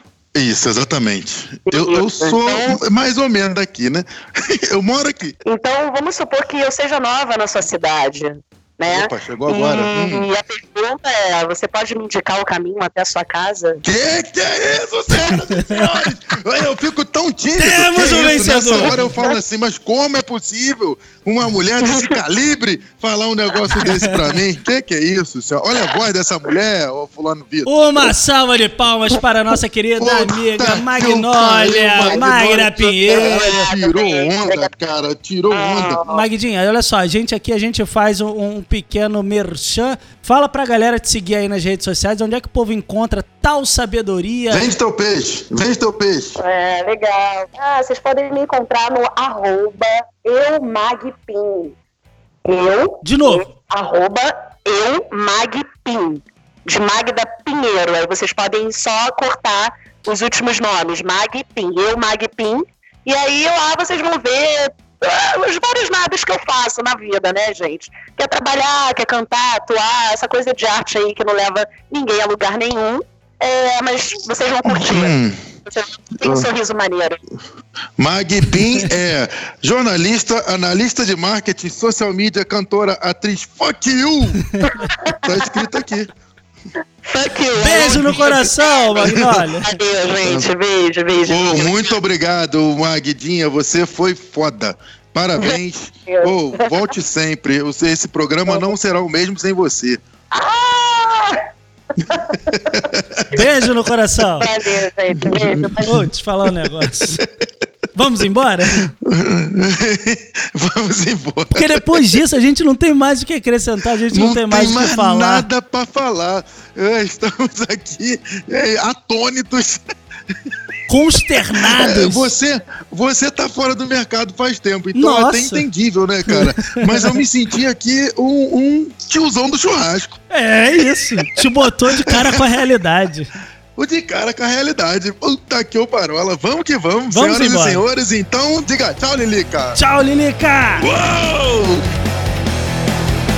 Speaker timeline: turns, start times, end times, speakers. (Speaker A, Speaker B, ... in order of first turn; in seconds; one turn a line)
Speaker A: 0.3-5.4
Speaker B: 1.7-2.8
Speaker B: 5.5-13.8
Speaker A: 8.9-10.3
Speaker A: 13.8-28.1
Speaker C: 15.3-15.9
Speaker C: 17.6-19.2
Speaker B: 18.8-19.3
Speaker B: 21.8-22.2
Speaker C: 23.8-24.4
Speaker C: 27.6-33.7
Speaker A: 30.0-36.0
Speaker B: 32.0-34.7
Speaker B: 35.5-36.2
Speaker C: 36.1-44.7
Speaker A: 44.5-46.4
Speaker B: 46.4-51.7
Speaker B: 52.4-77.2
Speaker C: 53.0-53.5
Speaker A: 74.6-75.4
Speaker A: 76.2-76.5
Speaker A: 78.0-84.4
Speaker C: 78.5-78.9
Speaker C: 84.5-84.9
Speaker B: 84.7-85.2
Speaker A: 85.2-86.1
Speaker B: 87.1-91.9
Speaker C: 87.5-89.8
Speaker A: 87.7-88.1
Speaker A: 89.0-89.4
Speaker A: 90.2-90.5
Speaker A: 91.3-100.0
Speaker B: 95.4-96.9
Speaker B: 98.5-98.7
Speaker B: 100.3-101.4
Speaker B: 102.0-102.8
Speaker A: 102.5-103.4
Speaker C: 103.3-104.5
Speaker B: 104.4-105.9
Speaker A: 105.2-106.0
Speaker C: 105.8-107.2
Speaker C: 107.9-108.9
Speaker A: 108.8-112.2
Speaker C: 111.5-115.5
Speaker A: 114.1-119.8
Speaker C: 120.9-122.3
Speaker A: 121.6-130.2
Speaker C: 124.9-125.7
Speaker C: 126.2-127.2
Speaker C: 130.3-133.3
Speaker A: 132.0-132.4
Speaker A: 133.8-139.8
Speaker C: 137.1-137.8
Speaker C: 139.8-140.9
Speaker A: 140.8-141.8